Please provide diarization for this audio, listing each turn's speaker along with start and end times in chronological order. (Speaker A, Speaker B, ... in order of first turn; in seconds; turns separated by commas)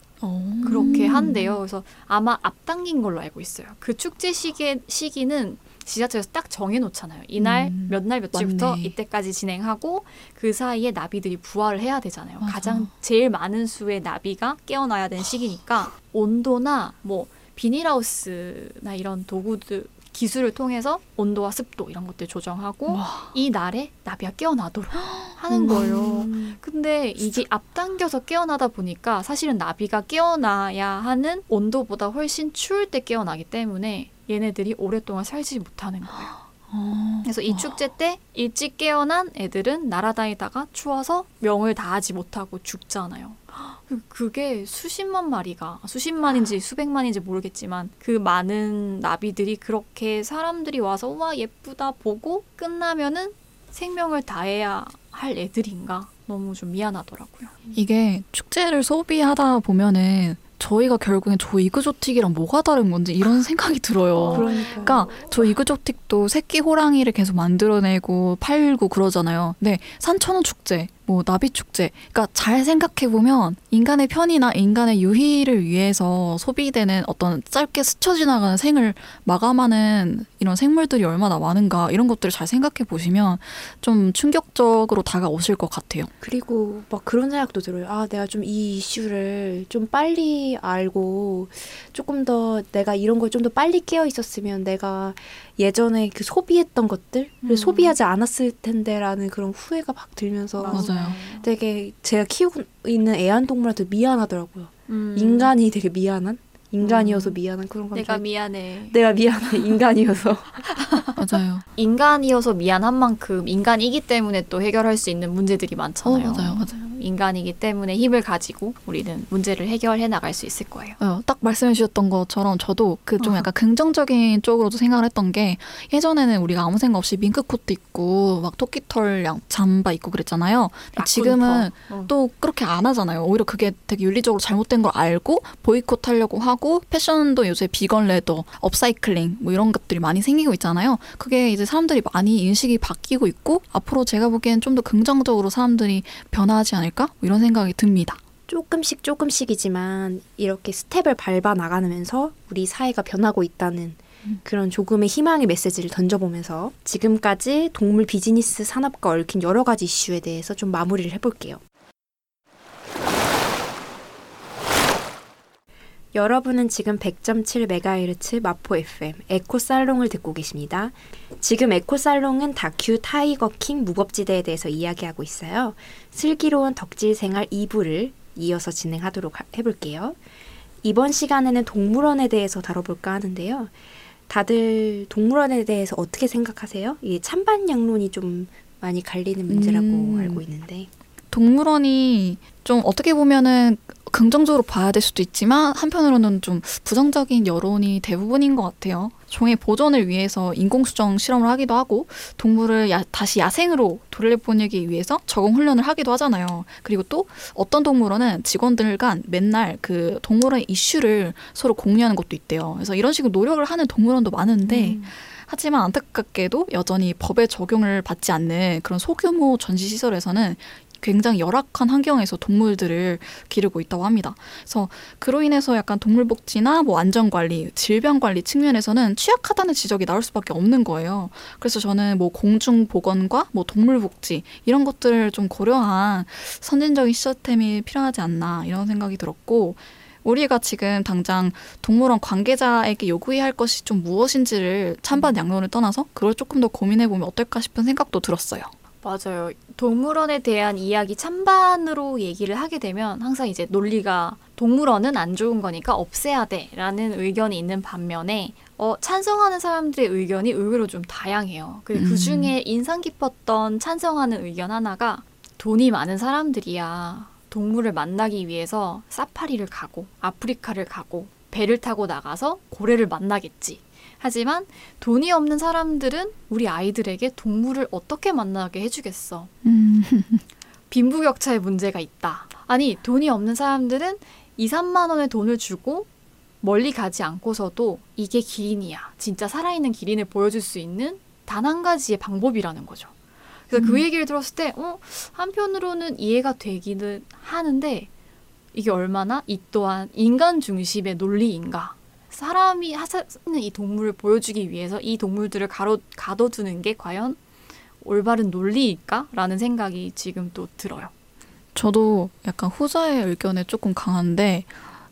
Speaker A: 0.2-1.6, Speaker B: 0.6-36.3, Speaker A: 7.4-8.9, Speaker A: 12.4-12.9, Speaker A: 22.9-23.3, Speaker A: 25.0-26.6, Speaker A: 36.2-37.8, Speaker B: 37.2-57.5, Speaker A: 57.7-86.1, Speaker B: 64.2-65.3, Speaker C: 64.3-65.1, Speaker C: 86.2-108.2, Speaker B: 97.4-98.0, Speaker B: 100.5-101.5, Speaker A: 100.7-101.2, Speaker B: 104.9-105.5, Speaker B: 106.8-107.4, Speaker B: 107.9-109.0, Speaker C: 108.9-110.7, Speaker B: 110.8-111.1, Speaker A: 111.2-111.7, Speaker B: 111.8-121.0, Speaker A: 116.0-116.8, Speaker A: 121.0-148.2, Speaker B: 123.2-123.5, Speaker B: 131.0-132.1, Speaker C: 148.5-161.6, Speaker C: 166.1-180.2, Speaker C: 180.8-183.8, Speaker C: 184.3-190.9, Speaker A: 189.5-190.4, Speaker A: 191.3-248.7, Speaker B: 214.7-215.1, Speaker B: 249.0-279.5, Speaker A: 261.9-262.5, Speaker A: 279.6-280.4, Speaker B: 280.9-286.1, Speaker B: 286.6-293.1, Speaker B: 293.7-298.1, Speaker A: 293.8-294.0, Speaker B: 298.7-307.4, Speaker B: 308.0-311.1, Speaker A: 311.8-314.7